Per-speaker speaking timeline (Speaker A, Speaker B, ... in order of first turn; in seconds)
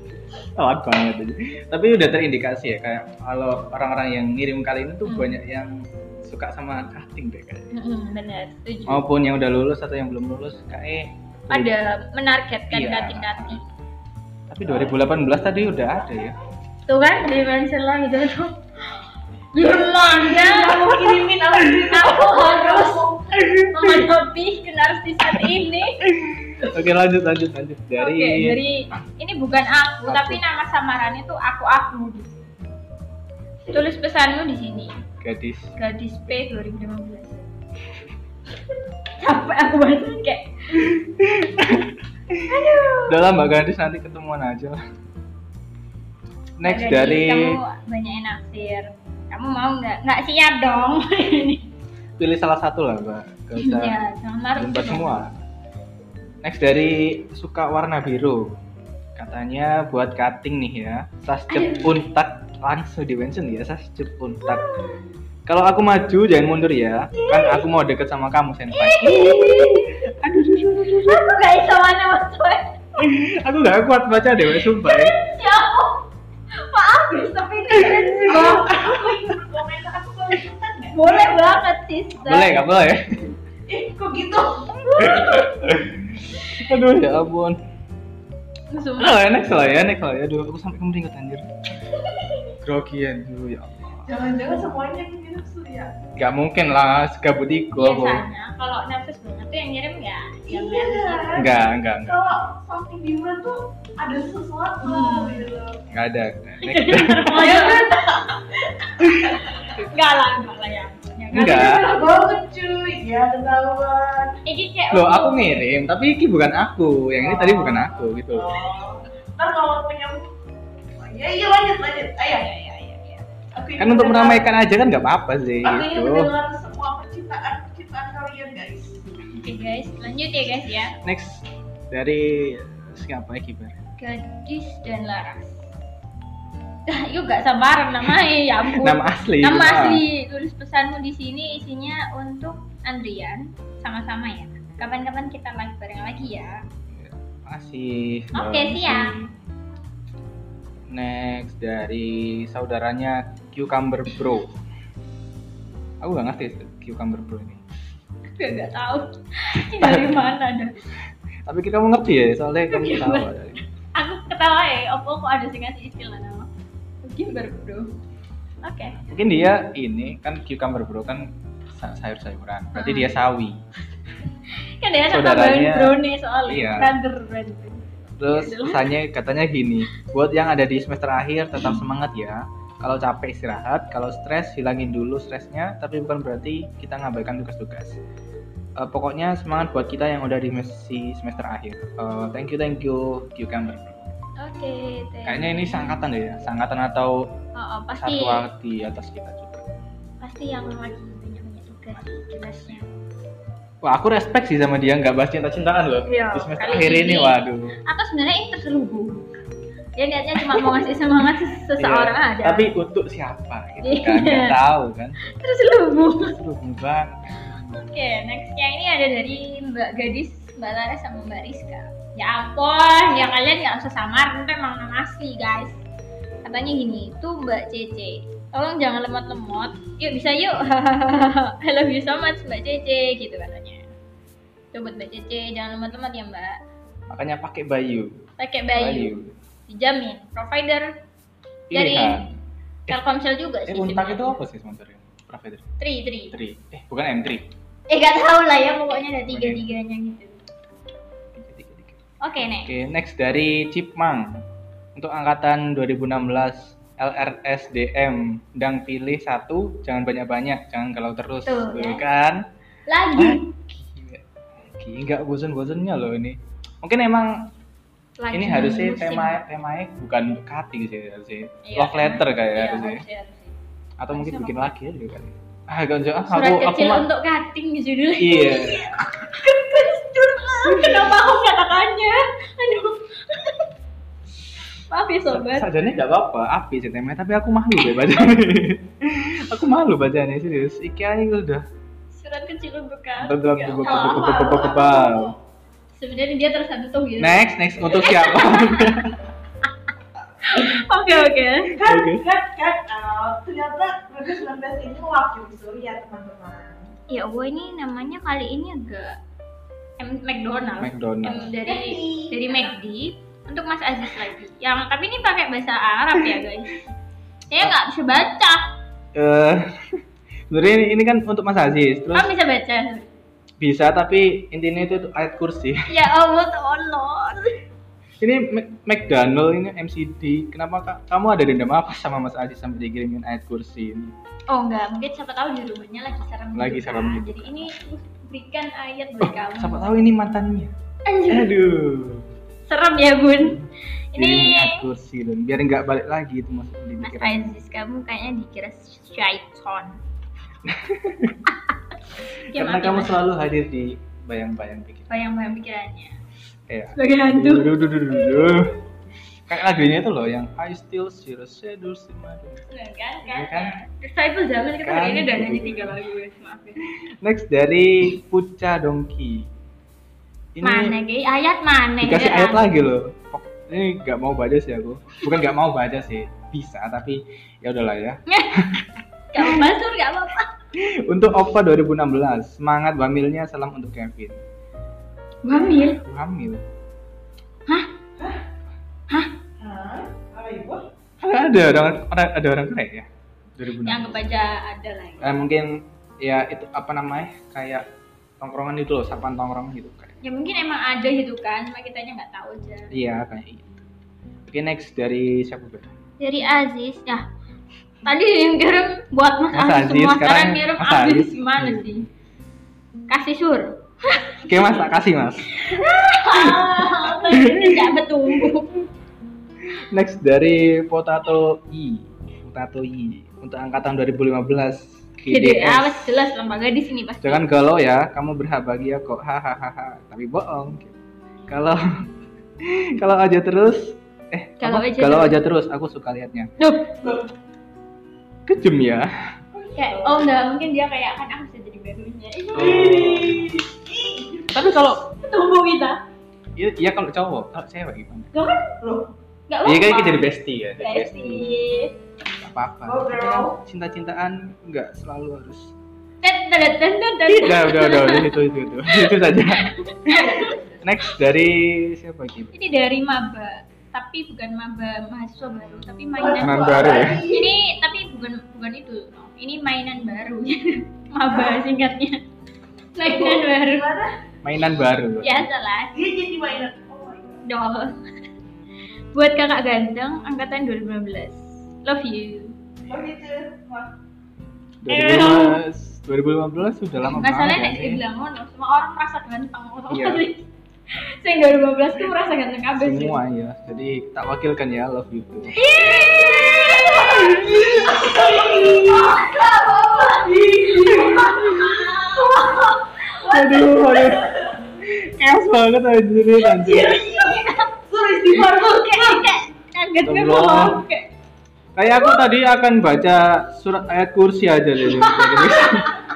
Speaker A: 0.4-7.7, 8.9-11.7, 12.7-13.6, 14.5-16.4, 23.4-24.1, 26.0-28.6, 30.1-30.4, 35.2-35.7, 40.8-44.8, 46.6-47.6, 52.2-54.0, 54.6-55.4, 56.4-58.6, 59.2-64.7, 65.5-71.4, 73.0-75.2, 77.8-78.4, 82.2-83.3, 85.0-87.6, 89.0-91.5, 92.6-94.1, 96.2-98.2, 101.3-102.2, 105.9-107.5, 109.0-109.3, 111.3-111.9, 114.9-118.7, 123.8-126.3, 131.0-133.8, 138.7-140.0, 146.9-149.3, 150.9-154.6, 156.0-157.6, 159.7-160.1, 161.5-163.6, 168.9-173.6, 175.1-176.9, 178.2-188.0, 188.8-194.1, 195.2-197.3, 198.0-199.7, 203.8-207.8, 210.5-210.8, 211.8-215.3, 216.2-217.9, 237.1-239.4, 241.7-242.3, 243.7-245.7, 246.3-247.5, 249.3-249.6, 251.3-262.5, 263.2-267.5, 268.3-273.0, 274.0-277.1, 278.2-279.0, 280.6-281.2, 285.3-291.6, 293.2-295.3, 297.2-299.2, 301.8-302.2, 310.8-311.5, 319.1-322.3, 323.6-325.9, 328.2-334.1, 336.6-337.7, 339.2-340.7, 341.3-342.3, 343.4-347.4, 350.6-351.5, 352.5-355.1, 356.7-358.8, 359.5-362.6, 363.2-363.8, 364.8-366.0, 366.9-369.5, 370.6-371.0, 372.0-379.7, 380.8-384.4, 385.8-386.6, 391.2-394.2, 395.2-397.9, 398.4-400.2, 402.9-403.9, 404.5-405.9, 409.5-412.0, 414.4-417.9, 419.6-426.1, 427.2-430.9, 431.5-431.9, 432.6-436.5, 438.5-439.1, 442.6-443.5, 444.5-445.1, 446.6-448.3, 449.6-451.5, 452.4-455.7, 457.3-460.3, 460.8-462.5, 466.4-467.2, 474.4-475.5, 484.8-488.0, 489.9-490.2, 492.8-495.6, 496.9-498.1, 501.0-501.8, 503.2-507.1, 510.1-510.8, 511.8-515.9
Speaker B: 5.1-5.4, 7.7-9.1, 11.5-13.6, 16.9-19.0, 19.5-21.2, 21.9-26.0, 28.0-32.5, 33.7-35.0, 35.8-37.4, 39.2-40.9, 42.5-43.2, 46.6-51.7, 53.6-55.2, 61.5-62.0, 64.5-65.0, 67.1-67.6, 68.7-70.0, 70.9-72.8, 74.6-79.4, 80.9-82.6, 84.9-85.5, 88.7-89.3, 97.8-101.5, 104.8-105.5, 106.6-108.1, 109.3-112.2, 114.5-115.6, 122.3-123.2, 129.3-130.9, 134.0-135.6, 136.9-146.6, 148.3-149.2, 158.3-160.8, 162.7-163.3, 163.9-166.5, 167.0-167.9, 168.6-169.0, 172.8-173.2, 174.5-179.0, 194.4-196.0, 197.6-198.5, 200.2-202.9, 206.1-209.2, 210.0-212.7, 213.8-214.6, 215.2-216.4, 217.7-225.8, 226.4-233.9, 234.7-236.6, 238.4-239.1, 239.7-240.9, 241.7-242.3, 242.9-244.3, 245.8-246.3, 247.9-250.4, 252.2-252.7, 261.5-262.0, 262.9-263.5, 268.2-269.4, 271.6-273.6, 274.1-274.7, 276.3-283.7, 284.9-285.7, 292.1-294.6, 295.9-299.1, 300.4-301.8, 307.1-309.2, 310.0-316.8, 317.5-318.7, 322.1-323.1, 325.9-327.6, 334.5-339.9, 341.1-341.5, 342.7-344.9, 347.0-350.0, 352.4-353.2, 355.1-356.2, 356.9-358.4, 362.7-366.8, 370.6-372.7, 378.3-378.6, 379.3-380.5, 385.4-386.0, 393.9-395.3, 400.2-402.9, 406.2-407.2, 408.1-412.1, 413.1-414.5, 415.6-418.8, 425.2-427.5, 434.6-435.4, 436.6-437.2, 439.8-442.9, 445.1-446.0, 448.3-448.8, 449.5-452.0, 456.2-458.4, 458.9-460.6, 462.5-472.2, 472.9-473.9, 475.2-475.9, 477.4-478.0, 479.1-482.6, 484.9-485.6, 487.1-493.2, 495.5-499.5, 500.9-502.8, 506.5-507.7, 508.3-511.1, 514.8-516.0
Speaker C: 19.6-23.4, 78.1-81.2, 83.7-85.5, 94.1-95.9, 100.5-105.8, 107.3-109.6, 111.7-114.4, 117.2-120.3, 121.0-122.5, 123.5-124.5, 125.6-129.1, 293.8-295.4, 301.7-306.9, 311.6-312.7, 389.6-390.8, 439.5-440.3, 442.6-444.5, 448.8-449.1, 452.9-453.6, 460.2-460.5, 466.2-467.5, 471.3-471.6, 473.1-474.1, 475.9-477.4, 482.9-483.9, 495.8-504.6, 507.9-509.3